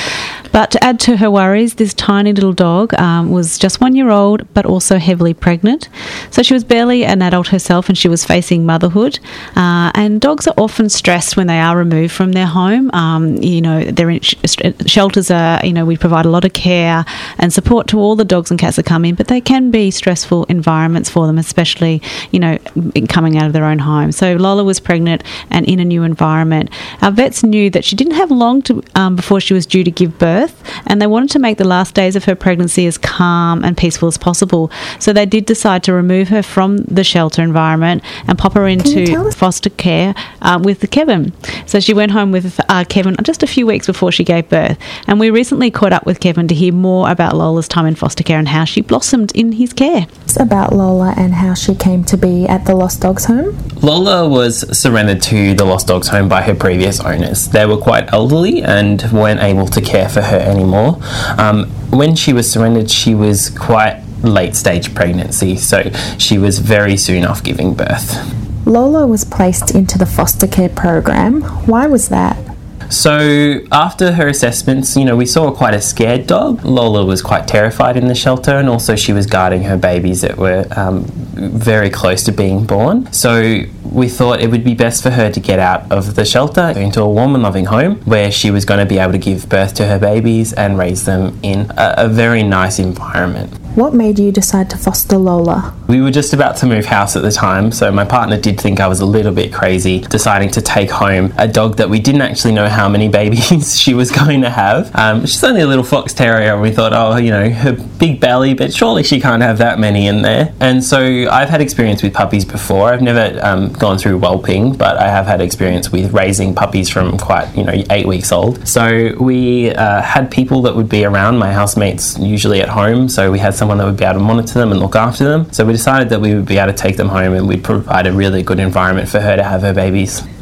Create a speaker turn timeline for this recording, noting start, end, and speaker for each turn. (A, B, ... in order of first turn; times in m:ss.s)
0:00.5-0:50.1 A
0:38.8-0:39.3 B
0:50.3-0:53.6 B
0:53.8-1:08.2 C
1:08.6-1:12.4 B
1:12.9-1:33.5 C
1:33.7-1:35.7 B
1:35.9-2:10.2 C